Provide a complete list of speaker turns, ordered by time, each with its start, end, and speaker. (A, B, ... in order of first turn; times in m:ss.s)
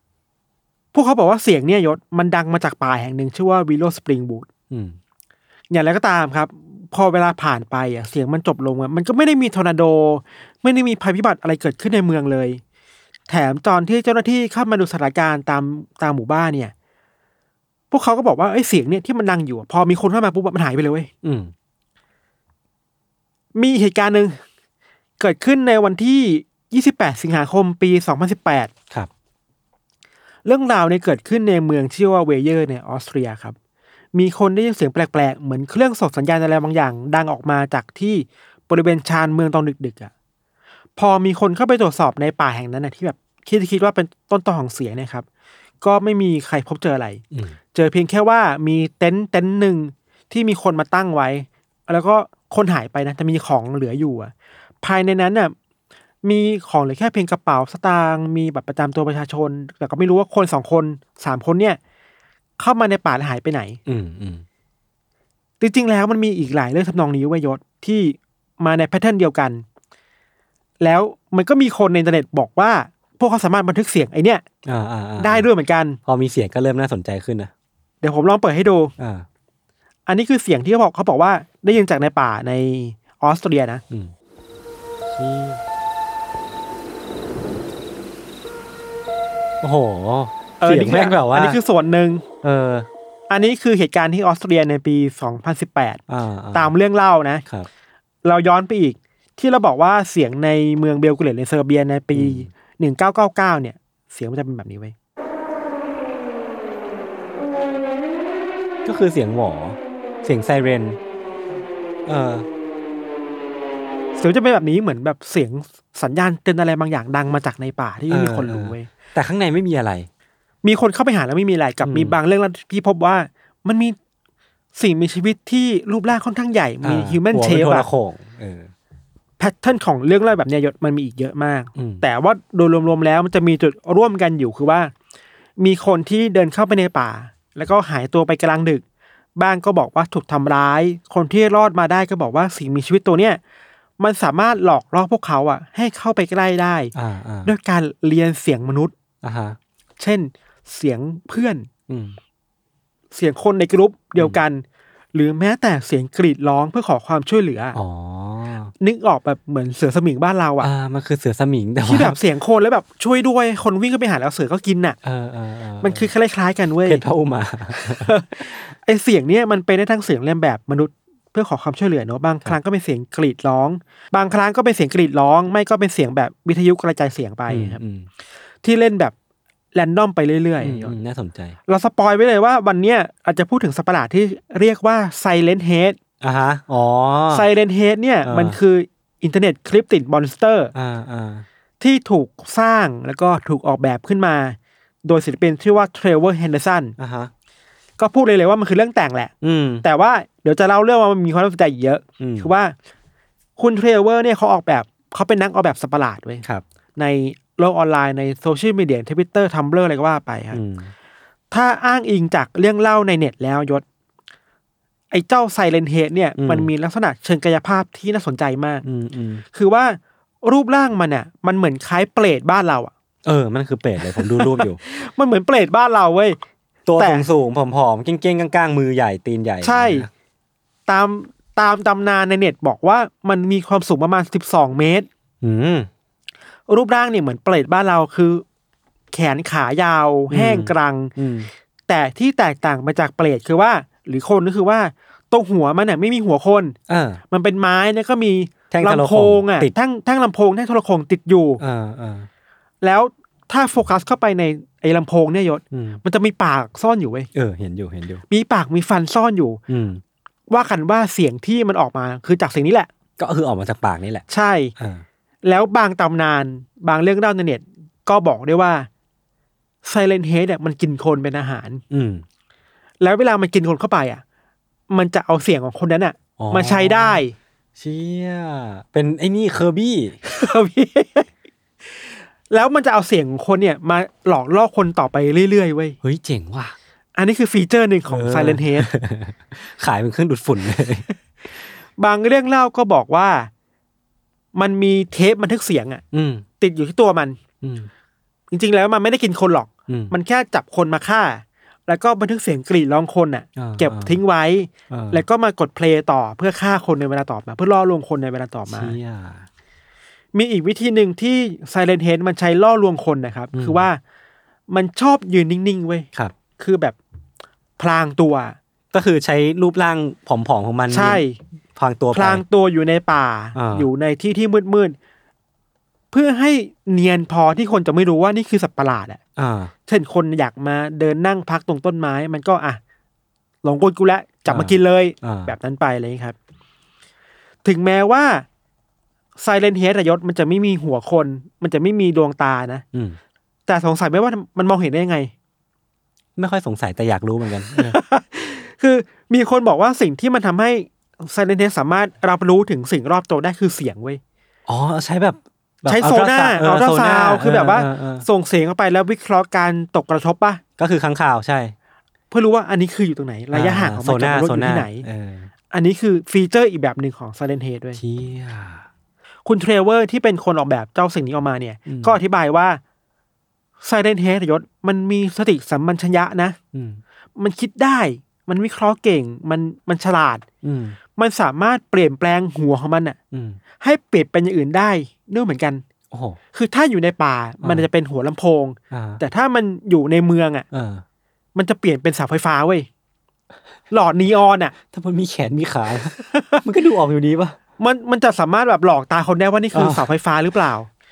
0:00.9-0:04.5 A
0:04.7-0:05.0 B
0:05.7-0:12.6 A
0:13.3-0:16.7 A
0:17.9-0:21.1 A
0:21.2-0:21.5 B
0:23.5-0:24.4 A
0:25.2-0:28.7 A
0:30.4-0:33.6 A
0:34.1-0:40.1 A
0:41.0-0:45.2 A
0:45.8-0:47.2 A
0:47.7-0:55.5 A
0:56.2-1:01.8 A
1:02.6-1:03.8 A
1:03.8-1:04.4 B
1:05.6-1:09.6 A
1:10.8-1:14.4 A
1:14.6-1:15.5 B
1:15.2-1:16.0 A
1:16.0-1:17.5 B
1:18.0-1:18.9 A
1:19.0-1:19.2 B
1:20.1-1:23.8 A
1:25.1-1:25.6 B
1:29.6-1:31.6 B
1:30.6-1:32.2 A
1:32.4-1:32.9 B
1:33.3-1:36.0 A
1:36.1-1:36.7 B
1:36.5-1:37.4 A
1:38.2-1:44.9 A
1:42.1-1:42.5 B
1:48.8-1:51.0 B
1:52.0-1:52.5 B
1:54.2-1:58.9 A
1:58.1-2:00.1 B
2:00.6-2:04.0 A
2:01.8-2:02.2 B
2:04.7-2:07.9 A
2:06.8-2:08.7 B
2:09.4-2:14.9 A
2:11.8-2:12.0 B
2:15.6-2:18.8 A
2:19.4-2:23.4 A
2:24.0-2:26.9 A
2:26.9-2:27.5 B
2:27.4-2:28.9 A
2:29.2-2:29.6 B
2:30.0-2:31.7 A
2:31.9-2:32.2 B
2:33.1-2:37.8 A
2:37.7-2:38.7 B
2:38.8-2:40.7 A
2:40.6-2:42.2 B
2:41.8-2:45.0 A
2:45.0-2:46.1 B
2:45.8-2:47.0 A
2:46.8-2:48.2 B
2:47.7-2:57.8 A
2:57.5-2:58.1 B
2:58.6-2:59.1 A
2:59.7-3:01.0 A
3:00.6-3:01.6 B
3:01.7-3:06.0 A
3:06.2-3:07.5 B
3:07.3-3:10.7 A
3:08.2-3:08.6 B
3:10.7-3:11.4 B
3:11.8-3:17.0 A
3:17.0-3:17.3 B
3:18.0-3:22.7 A
3:19.4-3:19.8 B
3:22.2-3:22.5 B
3:23.6-3:26.4 A
3:27.0-3:30.6 A
3:30.5-3:30.9 B
3:31.5-3:33.8 A
3:35.1-3:38.8 A
3:36.4-3:36.7 B
3:38.8-3:39.4 B
3:39.5-3:42.9 A
3:43.2-3:44.8 B
3:44.0-3:46.4 A
3:46.8-3:50.1 B
3:47.0-3:47.3 A
3:49.6-3:50.1 A
3:50.9-3:55.1 A
3:55.4-3:55.9 B
3:56.7-3:58.4 A
3:59.1-4:01.1 A
4:00.3-4:01.5 B
4:01.9-4:06.8 A
4:06.9-4:07.2 B
4:07.3-4:11.6 A
4:08.7-4:09.7 B
4:11.6-4:12.3 B
4:12.8-4:17.3 A
4:15.7-4:16.0 B
4:17.3-4:18.2 B
4:18.3-4:19.6 A
4:19.7-4:20.0 B
4:20.5-4:22.9 A
4:23.2-4:24.2 B
4:24.3-4:24.7 A
4:24.8-4:25.0 B
4:25.4-4:28.9 A
4:29.8-4:31.8 A
4:31.9-4:32.2 B
4:33.0-4:34.2 A
4:34.9-4:37.3 A
4:36.4-4:37.2 B
4:37.8-4:40.2 B
4:40.2-4:41.3 A
4:42.0-4:46.0 A
4:46.0-4:46.8 B
4:47.1-4:48.9 A
4:48.1-4:51.0 B
4:52.0-4:53.5 A
4:54.5-4:56.0 A
4:56.1-4:56.4 B
4:56.6-4:57.4 A
4:57.6-4:57.9 B
4:58.5-5:09.0 A
4:59.9-5:00.1 B
5:03.6-5:04.2 B
5:04.9-5:05.2 B
5:08.7-5:09.4 B
5:10.3-5:14.0 A
5:13.5-5:13.9 B
5:14.7-5:17.0 A
5:17.8-5:18.6 A
5:18.9-5:21.2 B
5:20.9-5:21.4 A
5:21.8-5:22.4 B
5:22.1-5:25.0 A
5:23.5-5:23.9 B
5:26.1-5:29.2 A
5:29.4-5:29.7 B
5:29.9-5:32.8 A
5:33.6-5:36.4 A
5:34.5-5:35.5 B
5:37.6-5:38.4 A
5:39.4-5:42.8 A
5:42.9-5:43.2 B
5:43.7-5:45.3 A
5:46.4-5:48.0 B
5:47.7-5:54.2 A
5:54.7-5:58.2 B
5:55.9-6:00.6 A
6:00.8-6:01.7 B
6:02.3-6:05.0 A
6:03.5-6:05.5 B
6:05.7-6:08.0 A
6:08.0-6:08.8 B
6:09.4-6:12.8 A
6:11.9-6:12.2 B
6:13.8-6:16.6 A
6:16.7-6:17.0 B
6:17.4-6:20.4 A
6:20.6-6:21.0 B
6:21.2-6:23.2 A
6:23.3-6:23.6 B
6:23.8-6:25.8 A
6:26.1-6:26.4 B
6:26.5-6:30.6 A
6:28.9-6:29.2 B
6:30.7-6:31.0 B
6:31.5-6:32.9 A
6:33.9-6:34.7 A
6:34.9-6:37.6 B
6:36.1-6:36.6 A
6:37.8-6:40.9 A
6:39.7-6:40.1 B